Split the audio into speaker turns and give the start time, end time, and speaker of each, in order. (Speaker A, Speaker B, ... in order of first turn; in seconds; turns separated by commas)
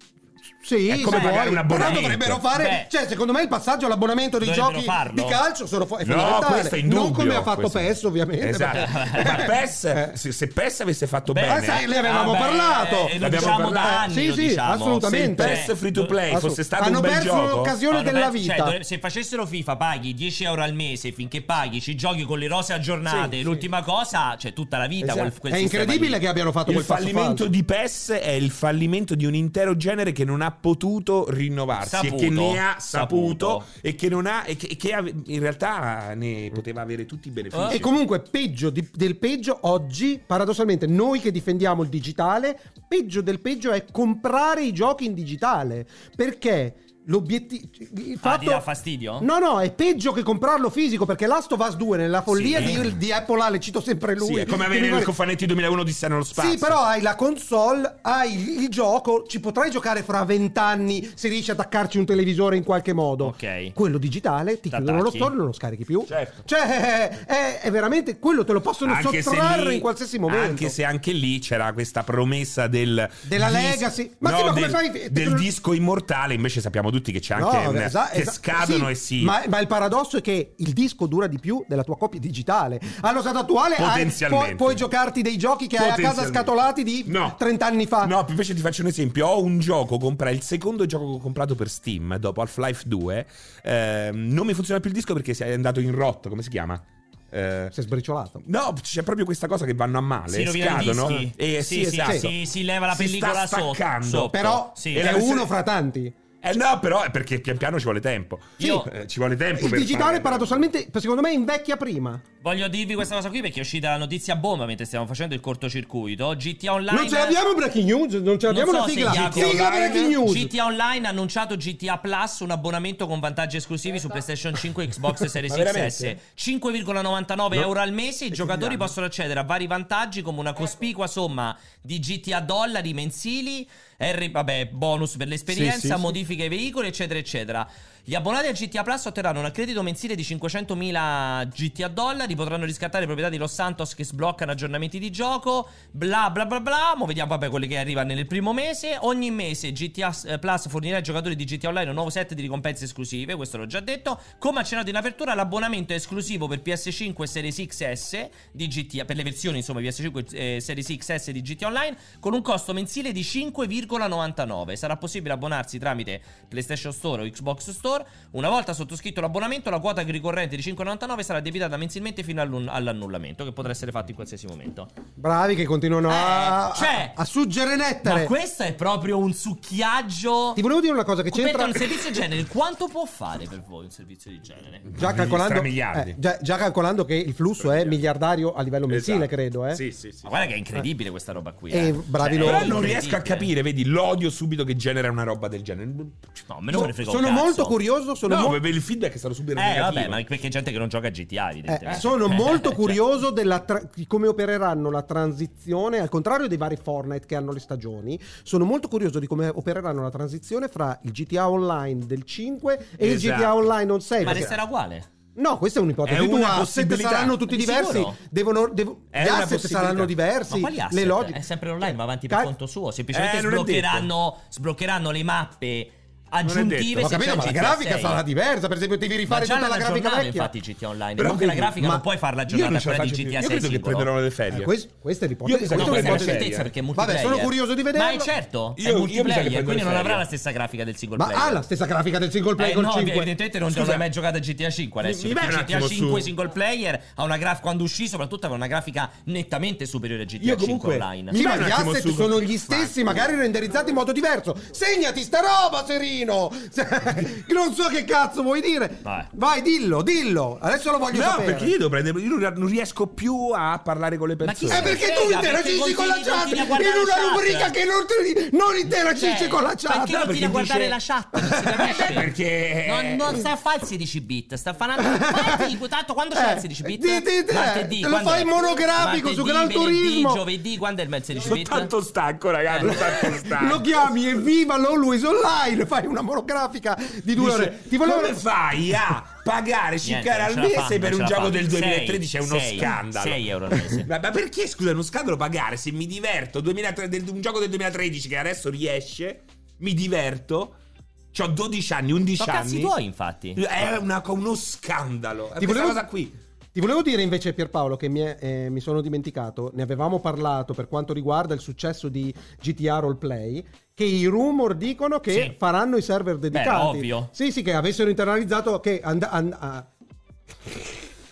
Speaker A: 0.6-10.2, Speaker B: 0.9-2.4, Speaker C: 1.0-2.9, Speaker C: 4.4-5.4, Speaker B: 6.0-11.8, Speaker C: 8.7-9.5, Speaker C: 11.3-16.2, Speaker A: 11.4-18.8, Speaker B: 13.2-14.1, Speaker B: 15.0-17.7, Speaker C: 17.9-26.2, Speaker B: 25.0-25.3, Speaker A: 25.5-27.5, Speaker B: 26.6-37.9, Speaker C: 31.8-33.7, Speaker C: 37.5-37.8, Speaker A: 37.7-48.6, Speaker C: 48.2-49.3, Speaker A: 49.2-55.1, Speaker C: 52.3-52.9, Speaker B: 52.5-52.9, Speaker B: 54.2-56.8, Speaker A: 56.3-70.8, Speaker C: 63.2-63.8, Speaker C: 64.7-65.3, Speaker B: 66.1-66.5, Speaker B: 68.8-79.3, Speaker A: 73.2-75.5, Speaker A: 77.3-88.1, Speaker B: 83.8-84.8, Speaker B: 85.8-86.5, Speaker B: 87.1-87.4, Speaker B: 88.0-97.7, Speaker A: 97.7-98.5, Speaker B: 98.4-102.4, Speaker C: 100.3-105.0, Speaker A: 102.0-102.3, Speaker B: 102.9-104.4, Speaker A: 104.2-106.2, Speaker B: 104.9-105.5, Speaker B: 106.4-110.7, Speaker C: 108.6-108.9, Speaker A: 109.6-112.2, Speaker C: 112.4-117.4, Speaker A: 116.9-120.5, Speaker C: 118.5-174.9, Speaker B: 119.0-120.2, Speaker B: 125.5-126.2, Speaker B: 128.4-128.8, Speaker B: 135.5-136.1, Speaker A: 175.2-178.3, Speaker C: 176.1-177.2, Speaker C: 178.0-180.6, Speaker A: 180.6-182.0, Speaker C: 181.3-184.9, Speaker B: 184.9-186.2, Speaker A: 185.0-189.8, Speaker B: 187.6-188.0, Speaker B: 188.9-190.3, Speaker C: 190.2-193.5, Speaker A: 191.7-192.9, Speaker B: 192.4-196.3, Speaker C: 196.5-197.8, Speaker A: 196.7-198.6, Speaker B: 198.2-200.2, Speaker C: 199.6-203.0, Speaker A: 201.7-214.5, Speaker B: 213.0-213.6, Speaker C: 214.2-215.1, Speaker B: 214.2-214.5, Speaker A: 215.3-221.4, Speaker B: 216.0-217.4, Speaker C: 217.5-218.2, Speaker B: 219.1-220.1, Speaker C: 220.5-228.2, Speaker B: 223.1-224.1, Speaker B: 226.4-227.1, Speaker A: 227.0-230.5, Speaker C: 229.3-234.1, Speaker B: 231.2-234.7, Speaker A: 234.5-238.3, Speaker B: 235.4-236.7, Speaker C: 235.7-241.6, Speaker B: 238.8-240.2, Speaker A: 241.2-243.3, Speaker C: 242.6-251.4, Speaker B: 243.7-244.0, Speaker B: 245.0-246.3, Speaker B: 250.4-253.2, Speaker A: 251.3-261.7, Speaker C: 259.0-259.3, Speaker B: 261.1-265.0, Speaker C: 264.4-267.7, Speaker A: 264.7-270.2, Speaker C: 268.9-272.3, Speaker B: 270.0-271.0, Speaker B: 271.7-273.4, Speaker C: 272.8-281.9, Speaker A: 275.0-275.7, Speaker A: 276.3-280.4, Speaker B: 281.4-283.8, Speaker C: 282.7-283.1, Speaker A: 282.9-288.4, Speaker B: 287.4-300.8, Speaker C: 290.0-294.1, Speaker B: 301.3-302.9, Speaker C: 302.4-303.6, Speaker B: 303.6-306.4, Speaker A: 305.6-306.0, Speaker A: 306.7-319.9, Speaker C: 315.3-315.5, Speaker C: 316.5-317.3